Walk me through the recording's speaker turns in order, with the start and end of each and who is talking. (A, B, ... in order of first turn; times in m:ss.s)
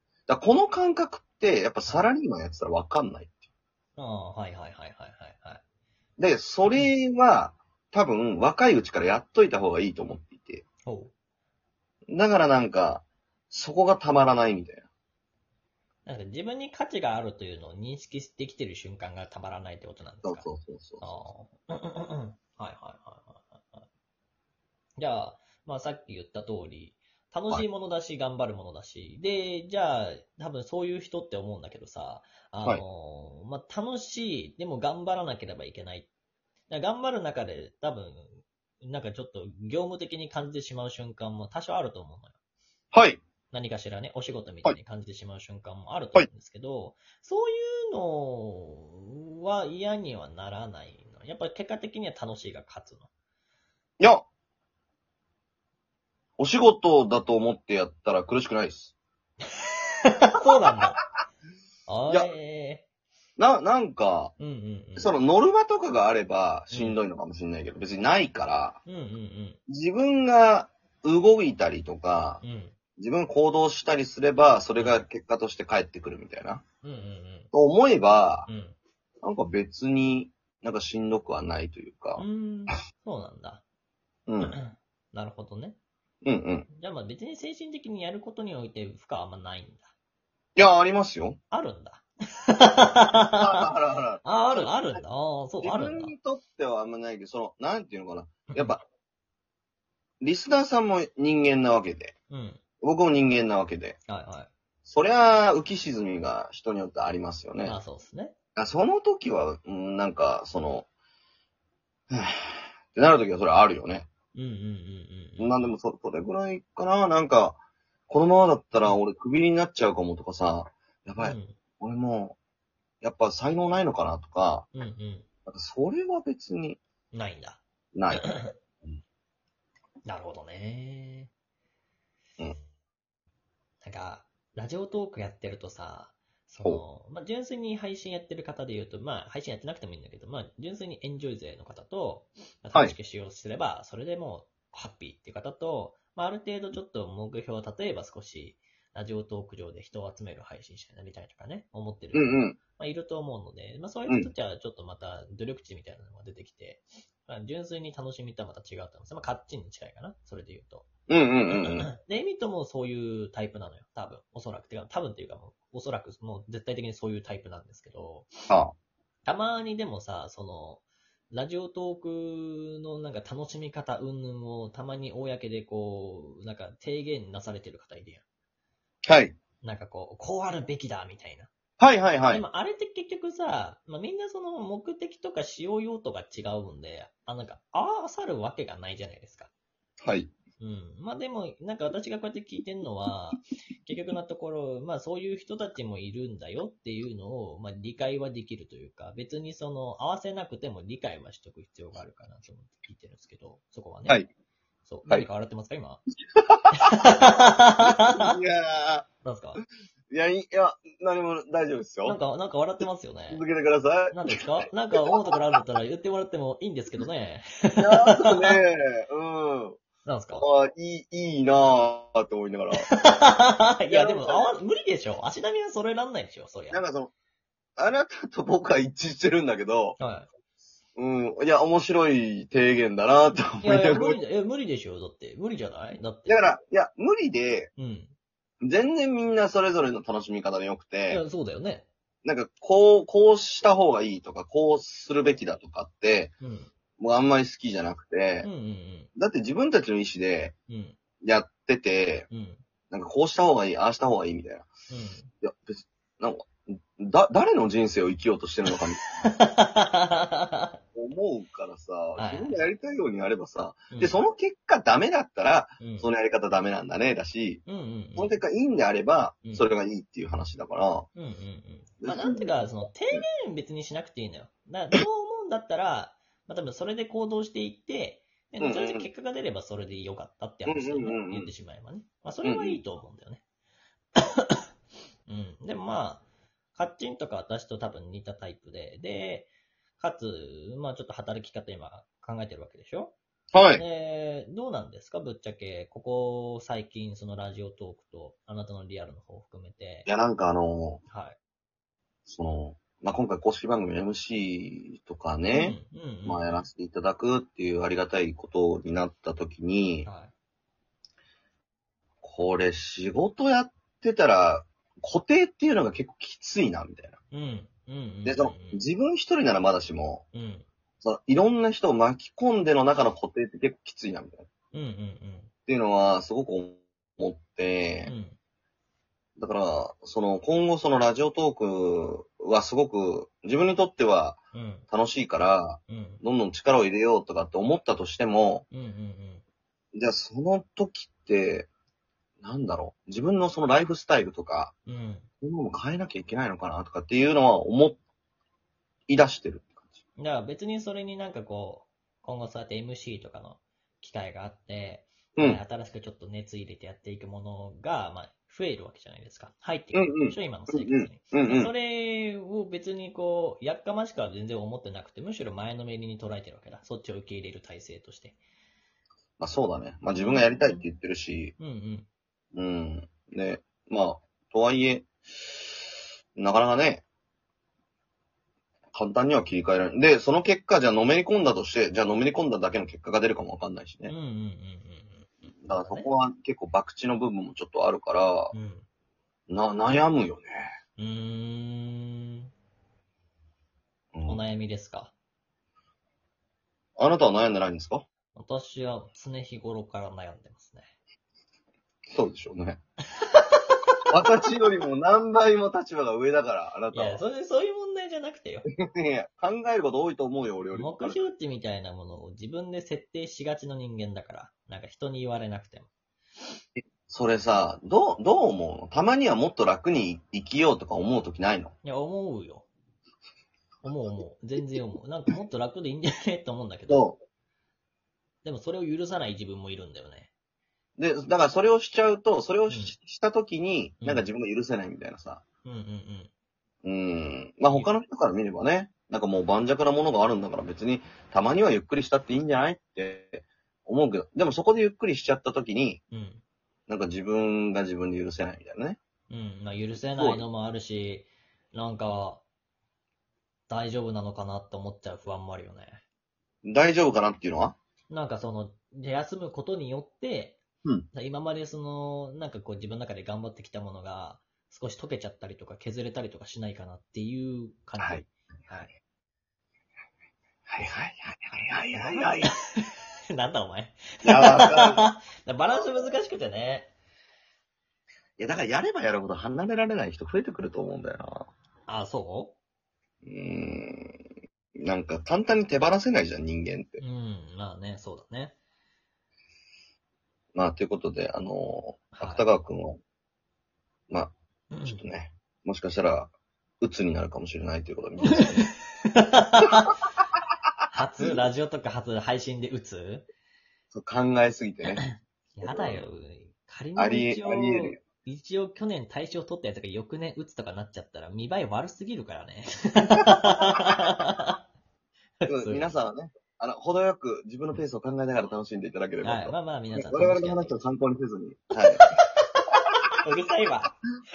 0:00.3-0:03.4 A
0:04.0-0:05.6 B
0:06.2-0:10.6 A
0:06.6-0:06.9 B
0:10.8-0:11.1 B
0:12.1-0:14.8 A
0:16.0-0:20.5 B
0:20.2-0:21.2 A
0:21.0-0:23.8 B
0:25.0-0:36.1 B
0:36.7-0:42.4 B
0:42.9-0:43.2 A
0:43.5-0:53.1 B
0:54.0-0:54.2 A
0:56.4-0:58.9 A
1:00.2-1:01.0 B
1:01.9-1:02.8 B
1:03.4-1:04.3 A
1:04.4-1:05.1 B
1:05.0-1:08.8 A
1:06.7-1:07.0 B
1:08.8-1:09.6 B
1:09.7-1:12.4 A
1:12.4-1:12.7 B
1:13.0-1:16.6 A
1:14.8-1:15.0 B
1:16.8-1:17.5 B
1:17.5-1:18.5 A
1:18.5-1:18.8 B
1:19.2-1:22.2 A
1:22.2-1:23.6 B
1:24.3-1:24.6 A
1:24.4-1:25.8 B
1:26.2-1:26.7 A
1:26.7-1:29.9 B
1:30.6-1:31.4 A
1:31.5-1:33.6 B
1:33.3-1:34.7 A
1:34.2-1:36.1 B
1:35.6-1:38.8 A
1:38.5-1:38.8 B
1:40.2-1:42.1 A
1:42.3-1:42.6 B
1:42.8-1:44.0 A
1:44.1-1:44.5 B
1:44.8-1:47.8 A
1:47.6-1:48.3 B
1:48.6-1:50.9 A
1:52.1-1:54.1 A
1:54.3-1:55.7 B
1:55.4-2:02.4 A
2:01.2-2:01.6 B
2:03.0-2:04.7 A
2:04.7-2:05.3 B
2:05.4-2:06.8 A
2:07.1-2:08.5 B
2:07.9-2:08.4 A
2:10.0-2:11.3 B
2:13.8-2:40.9 B
2:32.1-2:32.6 A
2:41.1-2:41.9 A
2:41.5-2:48.3 B
2:48.5-2:48.7 A
2:49.2-2:58.2 B
2:59.1-2:59.4 A
2:59.6-3:01.5 B
3:01.8-3:02.4 A
3:02.3-3:09.5 B
3:10.0-3:10.3 A
3:10.6-3:24.2 B
3:24.8-3:26.0 B
3:26.4-3:26.9 A
3:26.8-3:28.3 B
3:27.8-3:29.1 A
3:29.2-3:29.6 B
3:30.1-3:32.2 A
3:32.0-3:33.4 B
3:33.3-3:34.4 A
3:34.1-3:38.6 B
3:35.0-3:35.3 A
3:37.8-3:39.8 A
3:40.0-3:40.4 B
3:40.3-3:42.9 A
3:42.8-3:46.8 B
3:43.9-3:44.6 A
3:46.7-3:47.1 A
3:47.8-3:50.0 A
3:50.0-3:50.3 B
3:51.0-3:54.2 A
3:53.6-3:56.5 B
3:56.3-3:57.7 A
3:57.8-3:58.1 B
3:58.6-4:01.2 A
4:01.1-4:01.9 B
4:02.2-4:06.3 A
4:06.4-4:06.7 B
4:07.0-4:08.5 A
4:08.4-4:09.1 B
4:09.2-4:10.5 A
4:10.7-4:11.0 B
4:11.2-4:12.3 A
4:12.3-4:12.6 B
4:12.9-4:14.7 A
4:14.9-4:15.3 B
4:15.4-4:19.3 A
4:19.3-4:20.8 B
4:20.9-4:27.6 A
4:22.2-4:22.6 B
4:23.9-4:24.2 B
4:25.8-4:26.1 B
4:27.6-4:28.4 B
4:28.2-4:31.1 A
4:29.4-4:29.7 B
4:31.2-4:43.4 B
4:32.0-4:32.5 A
4:38.6-4:39.1 A
4:40.7-4:41.5 A
4:42.4-4:42.8 A
4:45.3-4:53.1 B
4:53.5-4:53.8 A
4:53.7-5:00.1 B
5:00.1-5:01.0 A
5:01.1-5:01.4 B
5:02.2-5:10.1 A
5:05.5-5:06.6 B
5:10.0-5:10.3 B
5:12.2-5:17.2 A
5:17.3-5:18.8 B
5:18.2-5:20.2 A
5:20.3-5:20.6 B
5:21.0-5:24.5 A
5:24.7-5:25.5 B
5:25.7-5:28.1 A
5:28.0-5:28.4 B
5:29.4-5:34.4 A
5:34.5-5:34.8 B
5:34.9-5:38.6 A
5:35.9-5:36.2 B
5:38.7-5:39.4 B
5:39.9-5:41.7 A
5:42.4-5:44.7 A
5:44.9-5:45.3 B
5:45.4-5:48.0 A
5:49.1-5:50.0 A
5:50.2-6:08.4 B
5:55.4-5:55.6 A
5:59.9-6:01.7 A
6:09.4-6:11.5 A
6:10.1-6:10.9 B
6:11.6-6:12.1 B
6:12.5-6:15.6 A
6:16.4-6:17.0 A
6:18.9-6:24.1 A
6:24.1-6:26.1 B
6:25.6-6:28.5 A
6:28.5-6:28.8 B
6:29.5-6:30.7 A
6:31.0-6:32.5 B
6:34.1-6:34.4 A
6:34.3-6:35.1 B
6:37.0-6:38.0 A
6:38.3-6:40.9 B
6:42.1-6:42.8 A
6:43.2-6:43.8 B
6:44.1-6:47.2 A
6:46.9-6:48.6 B
6:48.8-6:51.2 A
6:50.7-6:55.9 B
6:57.1-7:01.7 A
7:01.8-7:02.7 B
7:03.8-7:07.0 B
7:06.9-7:07.2 A
7:08.4-7:10.3 B
7:11.0-7:15.4 A
7:12.7-7:13.0 B
7:14.0-7:14.2 B
7:15.6-7:16.3 B
7:16.8-7:26.0 A
7:26.1-7:26.4 B
7:26.9-7:29.0 A
7:29.3-7:32.4 B
7:29.9-7:30.4 A
7:33.7-7:36.0 B
7:36.6-7:37.8 A
7:38.1-7:40.6 B
7:41.1-7:48.9 B
7:48.0-7:48.3 A
7:50.7-7:52.5 A
7:51.9-7:56.9 B
7:54.2-7:55.1 A
7:55.7-7:56.0 A
7:58.4-8:01.5 A
8:01.9-8:02.6 B
8:03.2-8:04.2 A
8:04.8-8:07.0 A
8:07.0-8:08.6 B
8:10.5-8:13.0 A
8:12.1-8:12.4 B
8:14.7-8:15.0 B
8:14.8-8:18.7 A
8:19.1-8:20.0 B
8:20.9-8:23.3 B
8:23.9-8:25.0 A
8:25.0-8:34.5 B
8:25.6-8:26.0 A
8:27.0-8:28.0 A
8:35.4-8:35.9 B
8:35.4-8:42.0 A
8:39.2-8:40.8 B
8:42.0-8:44.0 B